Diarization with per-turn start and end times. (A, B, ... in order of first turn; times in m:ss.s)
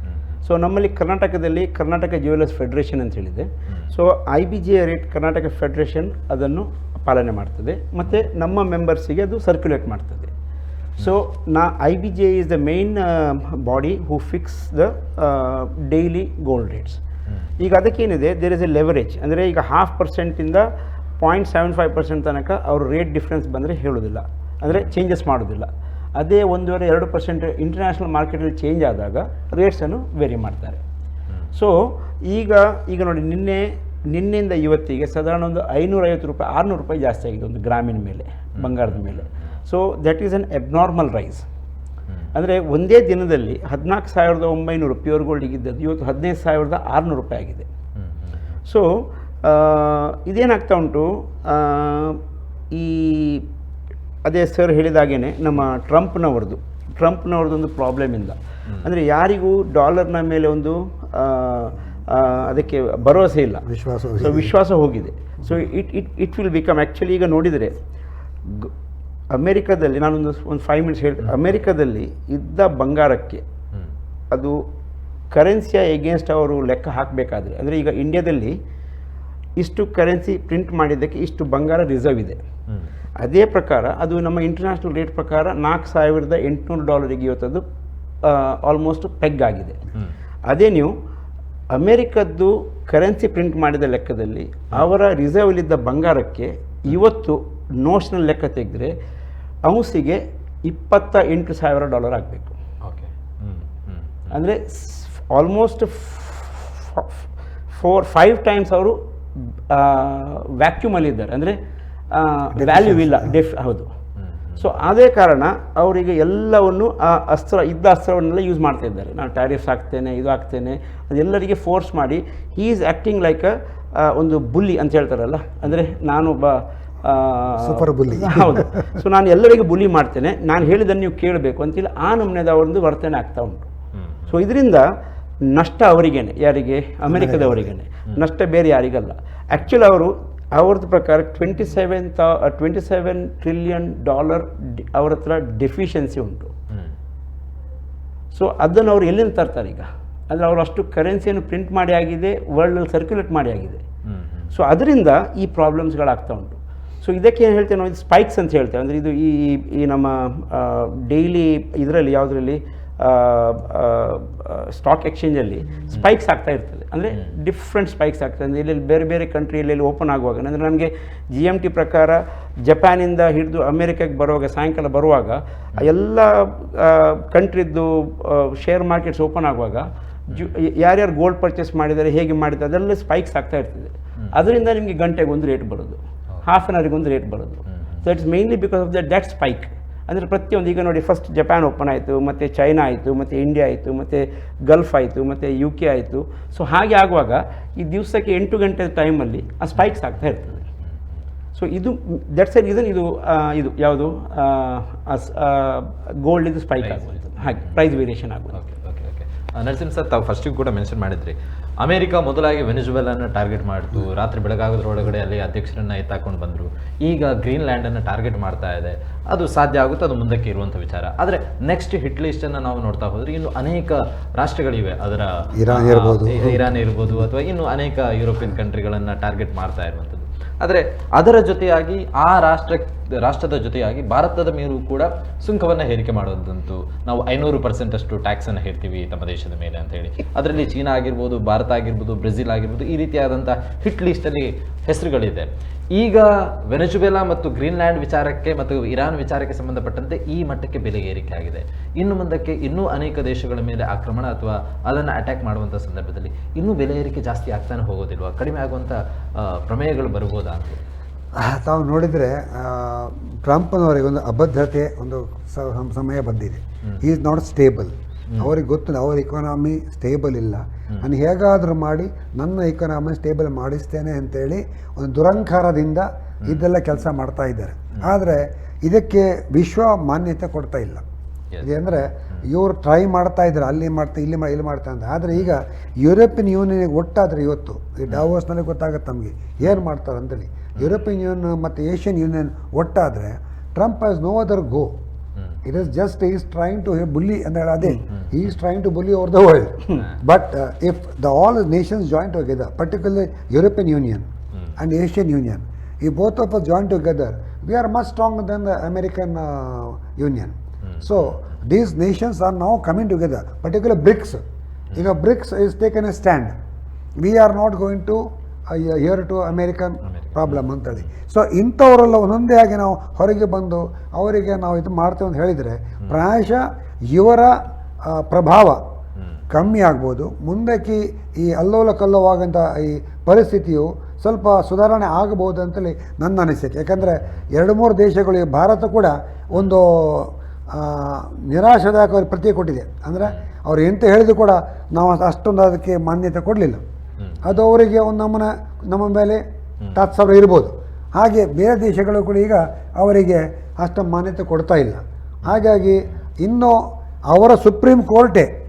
0:00.4-0:10.3 A
0:11.0-0:17.0 A
0:17.6-0:20.6 A
0:21.2-0:30.8 A
0:31.5-0:41.4 A
0:38.6-0:39.2 B
0:42.3-0:47.7 A
0:48.0-0:48.5 B
0:48.7-0:52.2 A
0:52.7-0:53.4 A
0:54.2-1:03.6 A
1:03.6-1:04.5 C
1:04.2-1:07.8 A
1:08.4-1:08.7 A
1:09.3-1:13.4 A
1:14.3-1:14.6 A
1:15.3-1:18.6 A
1:19.6-1:22.4 A
1:23.2-1:27.6 A
1:28.2-1:29.8 A
1:30.5-1:30.9 A
1:31.7-1:38.9 A
1:39.6-1:42.6 A
1:42.8-1:44.3 B
1:44.3-1:51.6 A
1:52.1-1:53.9 A
1:52.6-1:53.0 C
1:54.2-1:54.7 B
1:54.6-2:13.7 A
2:07.6-2:08.8 C
2:14.0-2:14.3 B
2:14.3-2:14.8 A
2:15.5-2:26.5 A
2:17.0-2:17.7 C
2:28.3-2:33.8 A
2:34.0-2:34.5 B
2:34.5-3:20.6 A
3:07.7-3:08.0 B
3:21.5-3:28.6 A
3:26.8-3:27.8 B
3:28.5-4:20.8 B
3:45.5-3:46.7 C
4:21.4-4:41.0 C
4:41.6-4:54.9 C
4:50.8-4:51.0 B
4:55.6-5:14.4 C
5:10.8-5:11.4 B
5:14.9-5:15.2 B
5:14.9-5:16.5 C
5:17.2-5:28.8 C
5:20.0-5:21.1 B
5:29.2-5:29.4 B
5:29.5-5:46.8 C
5:37.0-5:37.3 B
5:47.2-5:47.6 B
5:47.4-5:49.4 C
5:49.9-5:58.5 C